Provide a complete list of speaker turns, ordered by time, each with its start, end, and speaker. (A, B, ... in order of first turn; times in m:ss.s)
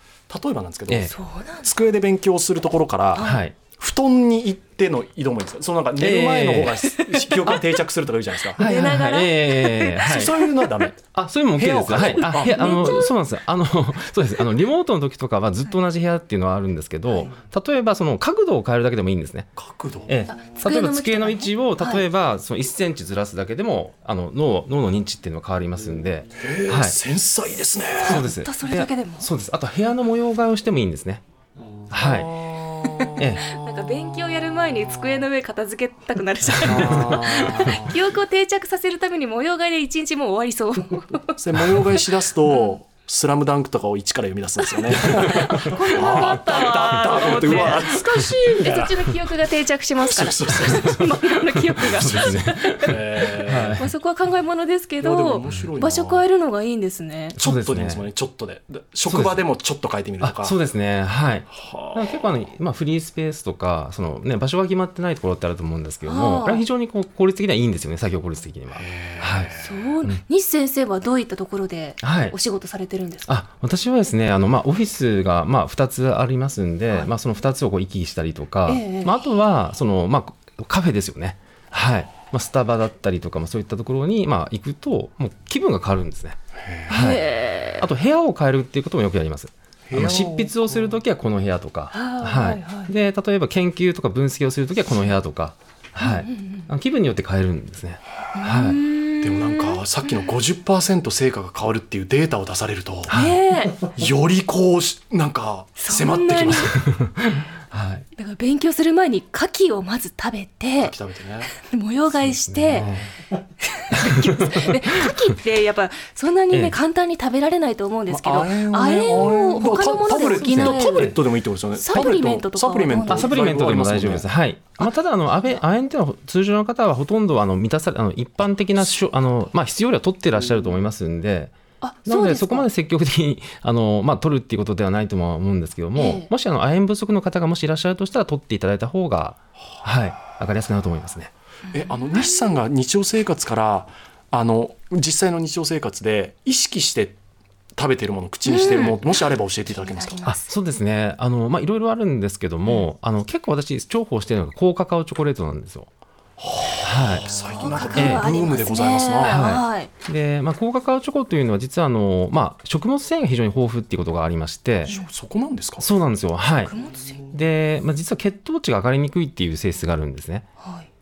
0:00.3-0:08.6 A
0:00.9-0:01.1 B
0:01.1-0:01.7 C
0:03.2-0:03.4 C
0:03.2-0:03.6 B
0:06.0-0:06.8 B
0:06.9-0:07.6 C
0:08.5-0:10.9 C
0:08.6-0:10.5 B
0:10.0-0:11.0 A
0:11.1-0:19.5 B
0:11.6-0:12.8 A
0:11.7-0:13.1 C
0:19.6-0:20.1 A
0:20.1-0:27.0 B
0:20.3-0:22.0 C
0:26.4-0:28.3 A
0:28.0-0:31.2 B
0:28.0-0:29.3 C
0:31.9-0:32.4 B
0:31.9-0:33.3 A
0:32.8-0:42.0 C
0:33.2-0:33.5 B
0:36.6-0:37.8 B
0:36.6-0:38.0 A
0:41.4-0:49.1 A
0:42.5-0:42.8 C
0:44.6-0:57.4 C
0:45.2-0:45.5 B
0:47.4-0:47.9 B
0:50.0-0:51.1 A
0:50.8-0:53.9 B
0:52.8-0:53.8 A
0:55.0-0:56.2 A
0:57.4-0:58.1 B
0:57.4-1:00.6 A
0:59.1-0:59.4 B
1:00.2-1:10.2 B
1:01.6-1:02.3 A
1:06.1-1:06.6 C
1:08.8-1:09.9 A
1:09.6-1:13.3 C
1:12.0-1:12.4 B
1:13.3-1:27.3 B
1:18.7-1:19.2 C
1:26.6-1:26.9 A
1:26.9-1:27.9 C
1:27.8-1:38.8 B
1:29.9-1:30.6 A
1:31.9-1:32.9 C
1:36.0-1:36.7 C
1:38.4-1:40.1 C
1:39.2-1:43.1 A
1:43.1-1:43.4 B
1:43.1-1:43.9 C
1:43.9-1:46.8 A
1:45.8-1:46.8 C
1:46.8-1:48.0 B
1:48.2-1:51.0 C
1:50.8-1:51.5 A
1:51.5-1:52.9 C
1:52.3-1:53.0 B
1:52.8-1:53.1 A
1:53.6-2:01.2 C
1:53.9-1:55.1 B
1:56.5-1:56.8 B
1:58.1-2:04.3 A
2:00.1-2:01.2 B
2:01.8-2:03.3 C
2:03.1-2:11.6 B
2:11.8-2:12.7 C
2:12.1-2:21.3 B
2:16.0-2:16.3 C
2:21.7-2:27.2 A
2:21.7-2:22.5 C
2:27.8-2:30.3 A
2:28.5-2:30.5 C
2:30.3-2:35.9 B
2:36.4-2:39.5 A
2:36.8-2:37.4 B
2:37.6-2:39.9 C
2:37.9-2:38.3 B
2:39.2-2:44.9 B
2:44.9-2:45.9 A
2:45.8-2:46.7 B
2:46.7-2:47.2 C
2:47.3-2:50.5 B
2:50.6-2:50.9 C